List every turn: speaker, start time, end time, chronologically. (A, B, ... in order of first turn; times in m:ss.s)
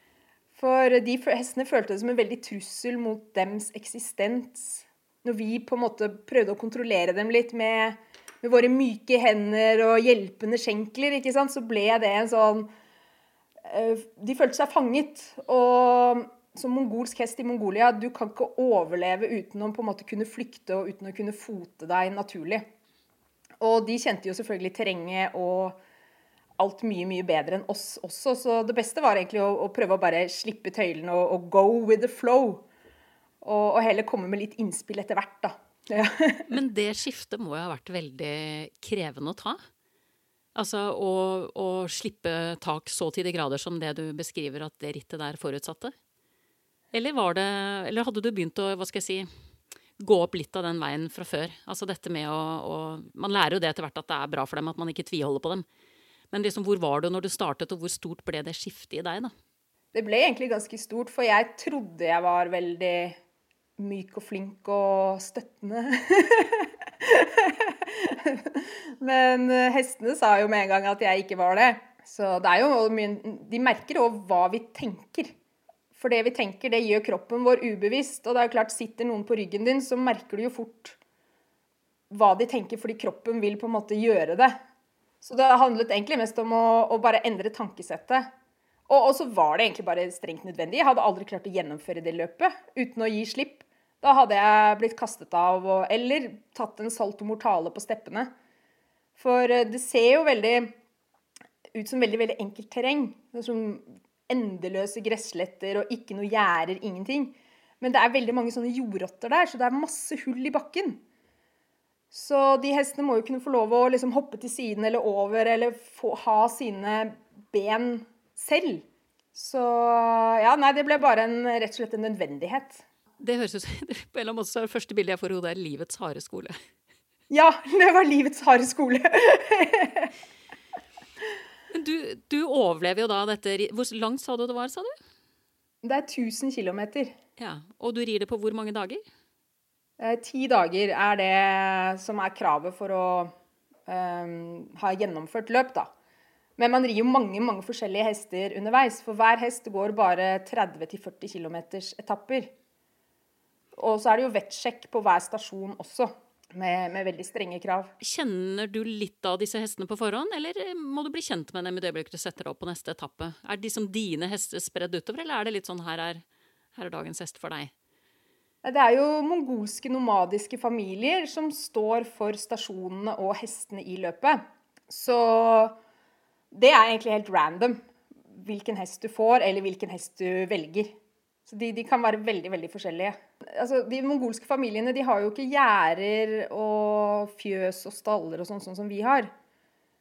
0:00.5-0:12.7 A
0:13.6-0:22.7 A
0:23.6-0:25.8 A
0:26.6-0:32.7 A
0:33.4-0:36.5 A
0:36.5-0:39.6 B
0:40.6-0:46.0 B
0:46.9-0:49.3 B
0:50.0-0:55.7 B
0:56.3-0:59.3 B
0:59.9-1:03.2 A
1:03.8-1:15.3 A
1:15.9-1:21.0 A
1:22.1-1:24.6 A
1:25.2-1:28.3 A
1:28.9-1:38.3 A
1:39.2-1:40.7 A
1:41.7-1:51.0 A
1:52.1-2:02.8 A
2:03.2-2:06.6 B
2:07.3-2:10.1 A
2:11.7-2:15.0 B
2:15.8-2:17.2 A
2:17.4-2:19.0 B
2:20.0-2:23.3 A
2:23.9-2:25.9 A
2:26.6-2:32.5 A
2:33.8-2:37.9 A
2:38.0-2:46.2 B
2:46.8-2:47.7 B
2:48.6-2:55.8 A
2:56.5-2:57.8 A
2:58.3-3:01.0 A
3:01.5-3:09.3 A